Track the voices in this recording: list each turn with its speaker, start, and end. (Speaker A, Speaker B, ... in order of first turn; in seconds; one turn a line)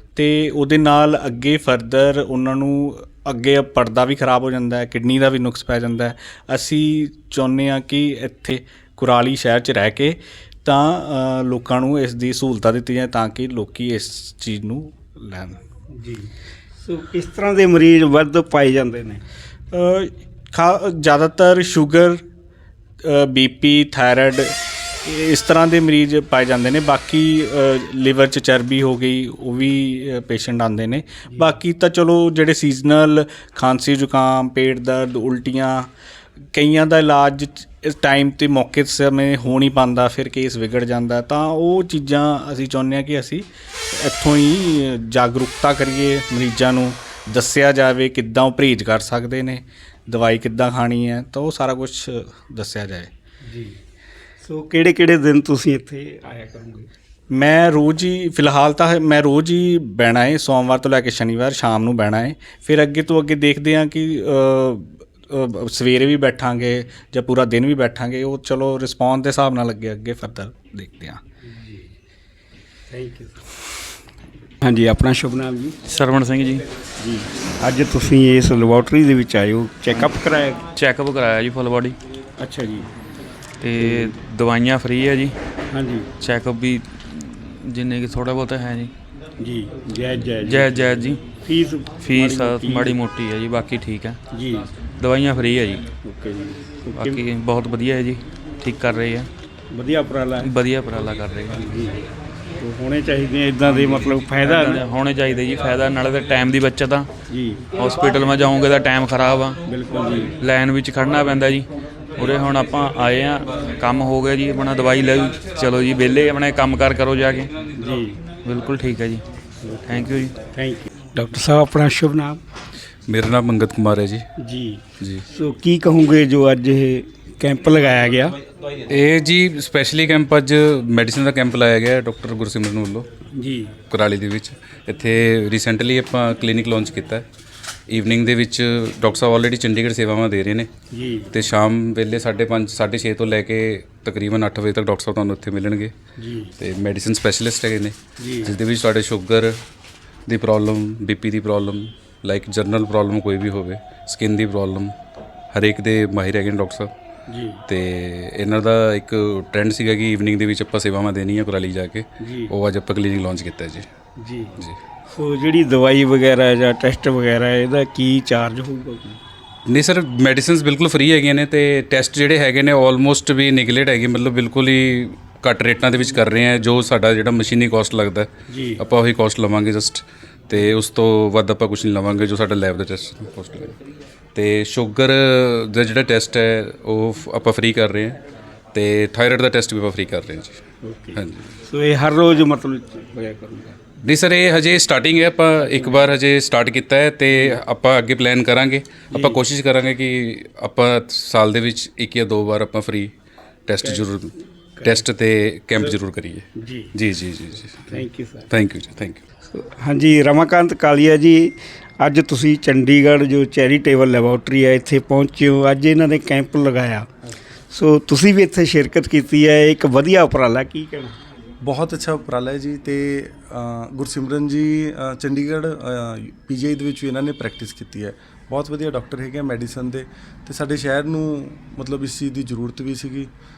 Speaker A: 0.1-15.6
Speaker B: 15.9-16.3
Speaker B: 16.8-19.2
Speaker A: 19.7-22.2
Speaker A: 23.0-35.9
Speaker A: 36.5-53.1
Speaker B: 53.5-53.8
Speaker B: 54.4-56.9
Speaker A: 57.3-71.2
Speaker B: 71.5-71.8
Speaker B: 72.9-73.4
Speaker B: 74.6-75.7
Speaker C: 75.8-76.6
Speaker B: 77.0-80.6
Speaker C: 80.7-82.0
Speaker B: 82.4-82.9
Speaker C: 83.6-85.3
Speaker B: 83.8-84.1
Speaker B: 85.7-86.1
Speaker C: 86.2-88.9
Speaker B: 89.4-93.0
Speaker C: 90.4-91.2
Speaker C: 92.0-94.2
Speaker B: 94.3-94.7
Speaker C: 95.0-95.8
Speaker B: 96.0-97.2
Speaker C: 96.9-99.3
Speaker B: 99.7-100.5
Speaker C: 100.4-101.7
Speaker B: 101.5-102.0
Speaker B: 102.6-104.8
Speaker C: 103.6-107.1
Speaker B: 107.3-107.6
Speaker C: 107.7-109.6
Speaker B: 109.7-110.3
Speaker C: 110.4-117.5
Speaker B: 117.8-118.2
Speaker C: 118.4-119.2
Speaker B: 119.6-122.4
Speaker C: 119.8-120.3
Speaker D: 123.1-124.2
Speaker B: 124.4-128.3
Speaker D: 128.9-133.1
Speaker B: 133.3-133.7
Speaker D: 133.9-137.2
Speaker D: 137.9-140.7
Speaker B: 140.9-141.3
Speaker D: 141.3-145.9
Speaker B: 146.2-146.5
Speaker D: 146.6-149.5
Speaker B: 148.2-148.5
Speaker D: 150.3-154.9
Speaker D: 155.5-156.9
Speaker B: 157.3-157.6
Speaker D: 157.7-163.8
Speaker B: 162.2-162.5
Speaker B: 164.2-169.2
Speaker D: 169.7-178.3
Speaker B: 178.5-178.8
Speaker D: 178.8-183.7
Speaker D: 184.3-188.2
Speaker D: 188.7-190.6
Speaker B: 190.8-193.8
Speaker D: 194.0-203.1
Speaker B: 199.1-199.4
Speaker D: 203.7-204.3
Speaker D: 204.9-206.4
Speaker B: 206.6-206.9
Speaker D: 207.0-207.8
Speaker B: 207.9-208.5
Speaker D: 208.5-209.2
Speaker B: 209.5-217.2
Speaker B: 217.7-221.2
Speaker E: 221.6-233.3